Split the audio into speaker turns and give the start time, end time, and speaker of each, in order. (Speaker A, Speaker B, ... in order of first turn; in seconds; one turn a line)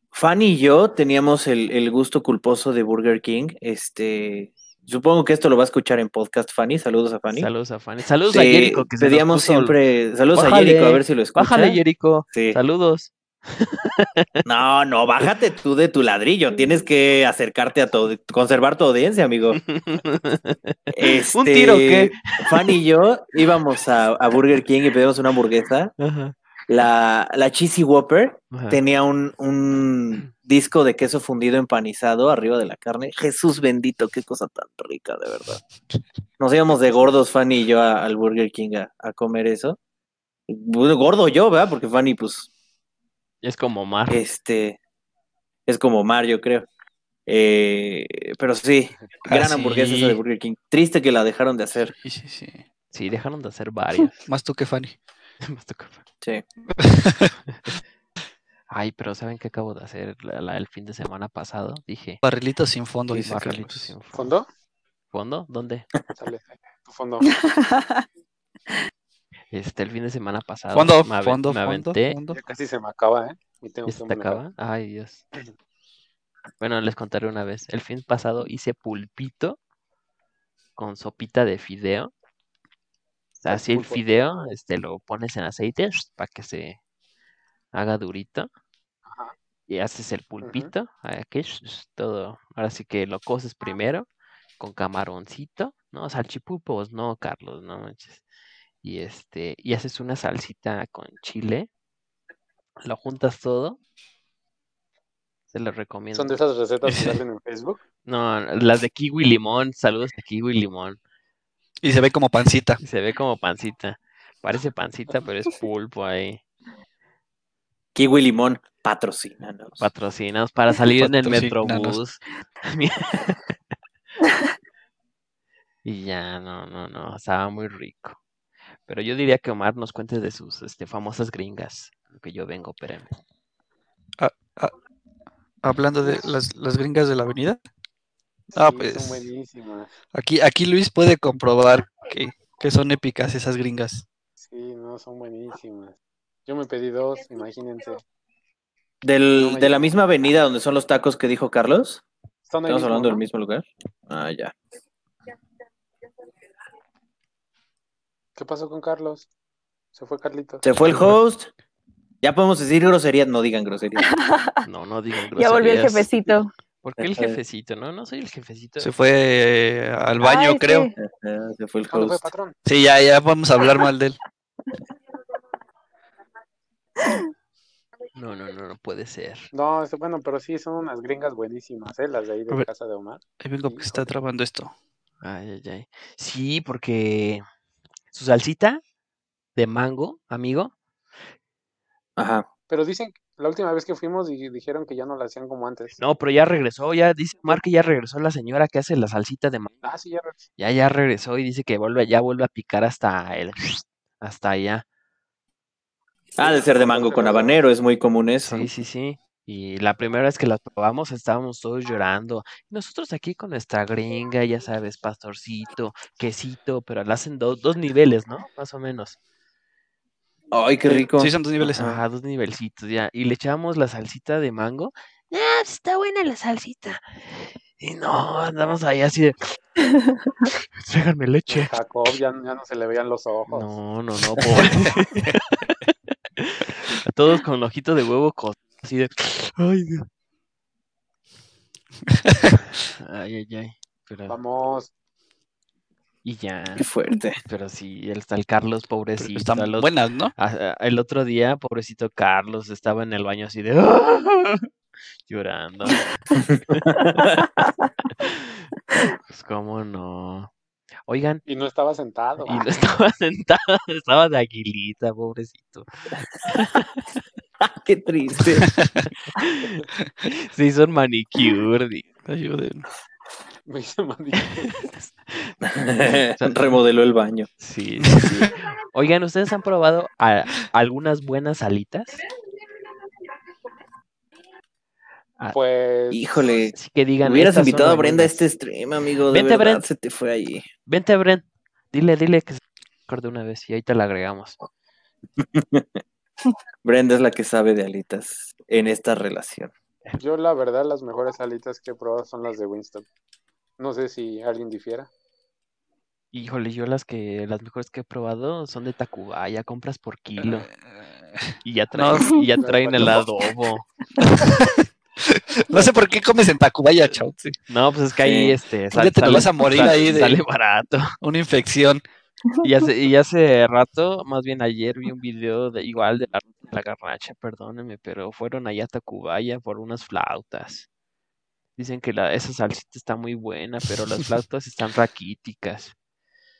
Speaker A: 0.1-7.5
Speaker B: 7.3-9.8
Speaker A: 8.3-11.8
Speaker B: 10.3-14.3
Speaker A: 12.3-12.6
Speaker A: 14.4-19.6
Speaker B: 19.6-22.7
Speaker A: 20.9-25.9
Speaker B: 26.0-26.4
Speaker A: 26.7-35.6
Speaker B: 28.5-28.8
Speaker A: 36.4-39.8
Speaker A: 40.5-42.5
Speaker B: 43.4-44.2
Speaker A: 44.1-44.8
Speaker A: 45.7-46.7
Speaker A: 47.3-51.9
Speaker C: 49.2-50.2
Speaker C: 51.9-52.6
Speaker B: 52.9-54.2
Speaker C: 54.3-55.0
Speaker B: 55.4-56.0
Speaker C: 56.8-57.3
Speaker B: 57.5-57.8
Speaker B: 58.7-62.2
Speaker C: 62.2-63.9
Speaker B: 63.1-64.3
Speaker D: 64.1-64.5
Speaker B: 65.1-65.9
Speaker D: 66.2-67.3
Speaker E: 67.3-68.0
Speaker B: 69.5-72.2
Speaker C: 70.7-72.4
Speaker D: 72.3-74.5
Speaker B: 73.9-75.3
Speaker B: 76.6-79.6
Speaker B: 80.8-82.1
Speaker B: 83.4-86.8
Speaker D: 83.5-84.0
Speaker B: 87.7-88.5
Speaker D: 89.1-89.3
Speaker B: 89.7-94.1
Speaker D: 90.4-90.7
Speaker B: 94.6-98.2
Speaker B: 98.8-101.7
Speaker B: 102.8-103.8
Speaker B: 105.5-106.4
Speaker D: 106.1-107.8
Speaker B: 108.0-111.0
Speaker C: 111.8-112.8
Speaker B: 112.8-116.4
Speaker A: 118.0-119.9
Speaker B: 119.8-123.5
Speaker C: 121.0-122.0
Speaker B: 125.8-128.2
Speaker B: 128.9-133.1
Speaker C: 134.2-134.7
Speaker C: 135.6-137.6
Speaker D: 138.5-139.9
Speaker C: 138.6-139.3
Speaker C: 140.1-144.1
Speaker D: 144.4-148.0
Speaker A: 149.0-152.0
Speaker D: 149.4-149.9
Speaker D: 152.5-153.2
Speaker A: 152.7-154.5
Speaker D: 158.4-159.3
Speaker D: 159.9-160.7
Speaker A: 160.6-161.5
Speaker C: 160.8-161.2
Speaker A: 162.2-164.1
Speaker E: 164.0-164.6
Speaker B: 164.7-166.1
Speaker E: 165.4-166.5
Speaker B: 166.8-168.9
Speaker A: 167.0-167.4
Speaker C: 168.8-170.9
Speaker E: 170.2-170.9
Speaker A: 171.0-172.2
Speaker D: 171.9-172.6
Speaker C: 172.7-174.2
Speaker E: 177.0-177.3
Speaker B: 178.2-179.5
Speaker D: 179.5-184.1
Speaker C: 183.4-184.7
Speaker B: 185.2-187.4
Speaker B: 188.1-188.8
Speaker B: 189.6-190.7
Speaker A: 192.2-192.5
Speaker D: 192.7-196.0
Speaker B: 196.0-199.8
Speaker D: 199.8-200.4
Speaker B: 200.6-204.8
Speaker A: 206.4-208.7
Speaker D: 206.4-207.6
Speaker B: 208.4-219.2
Speaker A: 220.5-222.0
Speaker C: 221.2-221.9
Speaker B: 221.8-229.6
Speaker B: 230.8-231.7
Speaker D: 231.5-233.8
Speaker B: 233.5-240.1
Speaker B: 243.0-244.4
Speaker D: 244.3-244.9
Speaker B: 246.2-246.9
Speaker A: 246.8-247.4
Speaker B: 247.4-254.7
Speaker C: 249.2-250.3
Speaker B: 255.3-256.1
Speaker A: 256.4-257.3
Speaker B: 256.7-257.2
Speaker B: 258.2-258.6
Speaker B: 259.3-260.5
Speaker B: 261.1-261.4
Speaker D: 261.5-262.7
Speaker B: 262.5-267.1
Speaker A: 267.6-268.7
Speaker B: 269.4-272.1
Speaker C: 272.3-272.9
Speaker D: 273.7-274.9
Speaker B: 274.6-275.5
Speaker A: 275.6-277.5
Speaker B: 277.6-282.2
Speaker D: 285.5-286.4
Speaker A: 286.1-290.7
Speaker B: 286.7-288.4
Speaker B: 289.3-289.9
Speaker B: 290.9-294.6
Speaker A: 295.4-296.0
Speaker A: 296.8-299.7
Speaker D: 300.2-303.1
Speaker D: 303.8-305.1
Speaker B: 306.3-310.7
Speaker C: 311.4-312.4
Speaker B: 311.6-313.9
Speaker D: 312.6-313.2
Speaker C: 314.2-317.6
Speaker B: 317.7-321.2
Speaker A: 318.2-318.6
Speaker C: 318.9-320.4
Speaker A: 319.7-320.3
Speaker C: 321.2-322.0
Speaker B: 322.6-330.9
Speaker B: 331.8-335.9